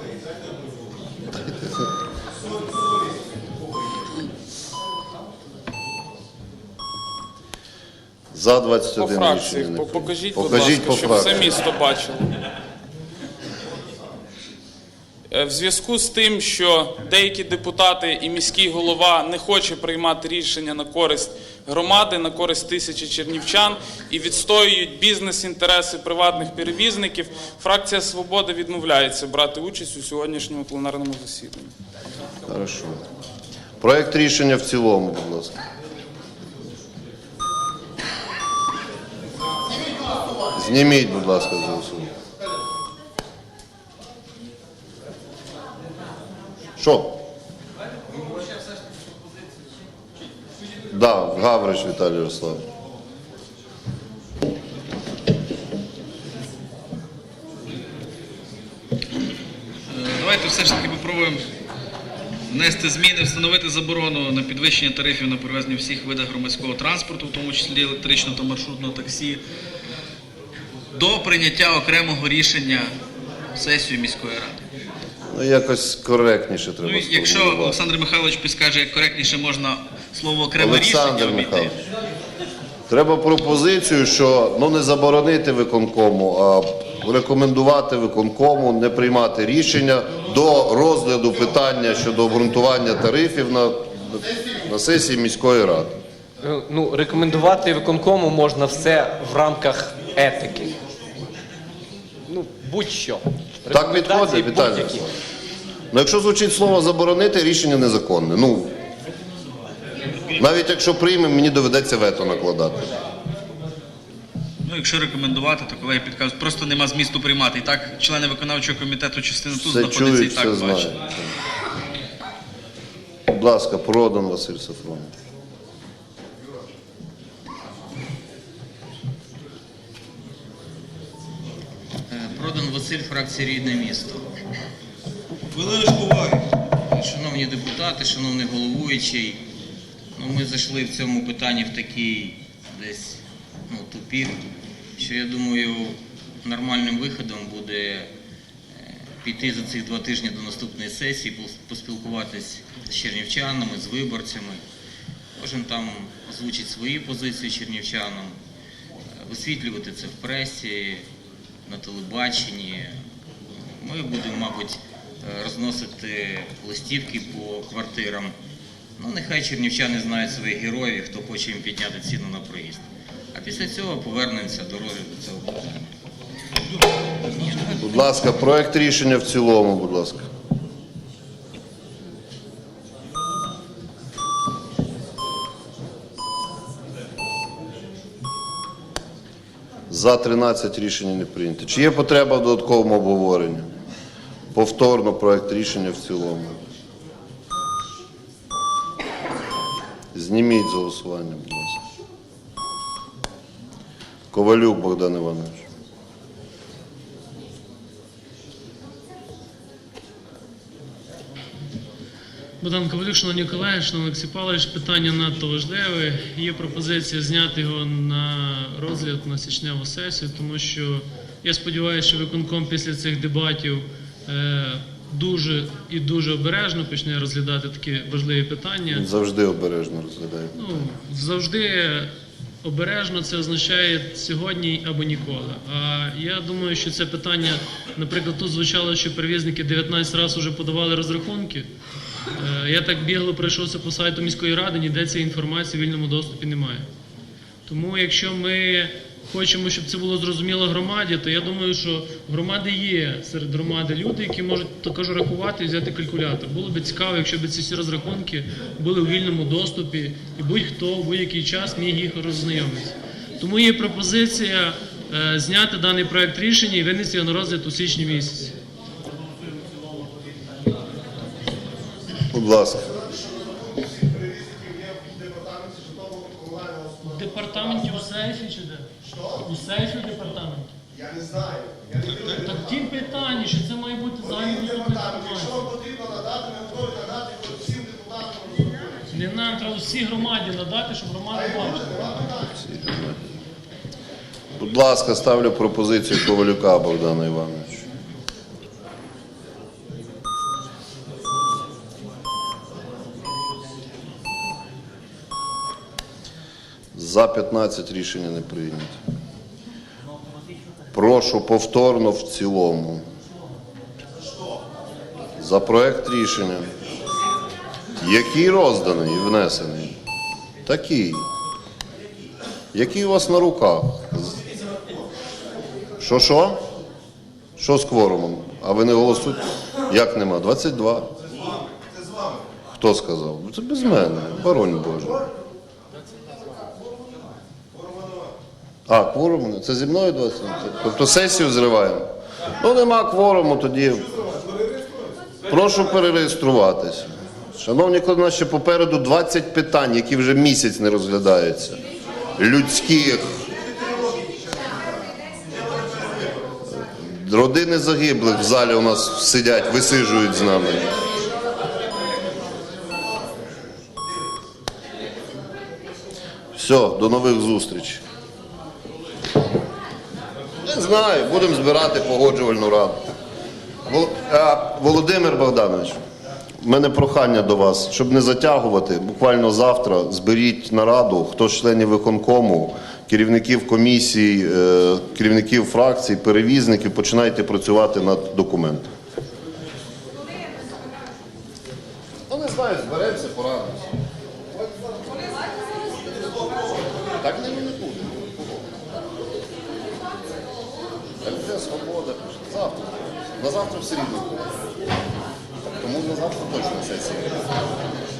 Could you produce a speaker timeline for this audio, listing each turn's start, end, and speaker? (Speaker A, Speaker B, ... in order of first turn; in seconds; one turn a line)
Speaker A: 1.3-1.9
Speaker A: 8.3-11.5
Speaker B: 9.0-12.3
Speaker B: 15.3-31.7
Speaker A: 32.5-33.0
Speaker A: 33.8-35.6
Speaker A: 40.3-42.1
Speaker A: 46.8-47.1
Speaker A: 50.9-52.6
Speaker C: 59.9-61.4
Speaker C: 62.5-69.4
Speaker C: 70.9-72.9
Speaker C: 73.6-74.6
Speaker A: 75.3-77.8
Speaker C: 76.8-81.7
Speaker A: 80.6-81.8
Speaker A: 82.9-95.9
Speaker D: 96.4-100.8
Speaker D: 102.3-105.0
Speaker A: 103.7-105.1
Speaker A: 105.9-108.7
Speaker A: 110.4-112.9
Speaker C: 114.6-121.0
Speaker A: 119.6-121.3
Speaker A: 123.3-125.1
Speaker E: 132.1-134.3
Speaker C: 135.6-136.4
Speaker E: 136.9-139.4
Speaker E: 140.2-144.4
Speaker E: 145.0-148.1
Speaker E: 148.8-154.6
Speaker E: 155.4-158.4
Speaker E: 159.2-161.1
Speaker E: 161.7-163.0
Speaker E: 163.6-168.3
Speaker E: 169.0-175.9
Speaker E: 177.3-177.8
Speaker A: 177.8-180.3
Speaker A: 189.9-193.7
Speaker A: 194.5-196.6
Speaker A: 200.1-201.8
Speaker A: 204.3-205.6
Speaker F: 212.6-229.1
Speaker A: 228.9-230.5
Speaker F: 230.5-232.1
Speaker F: 232.6-241.7
Speaker F: 242.3-246.9
Speaker F: 247.7-268.5
Speaker A: 272.3-273.0
Speaker G: 273.6-276.7
Speaker F: 277.0-280.7
Speaker G: 281.4-281.8
Speaker F: 282.0-285.7
Speaker G: 286.1-288.8
Speaker F: 289.1-292.2
Speaker A: 292.3-293.2
Speaker A: 294.6-297.9
Speaker A: 306.9-309.0
Speaker A: 310.9-313.0
Speaker A: 315.4-316.7
Speaker A: 318.0-319.9
Speaker A: 320.7-321.2
Speaker A: 322.7-324.4
Speaker A: 326.0-326.6
Speaker A: 327.6-331.1
Speaker A: 332.8-335.2
Speaker A: 338.9-342.0
Speaker A: 342.6-344.1
Speaker A: 345.5-351.8
Speaker A: 352.4-353.3
Speaker A: 356.7-360.9
Speaker A: 366.6-368.0
Speaker A: 370.6-373.0
Speaker A: 373.9-376.0
Speaker A: 376.6-388.9
Speaker A: 392.3-393.9
Speaker A: 397.2-398.8
Speaker A: 401.2-404.5
Speaker A: 405.7-407.4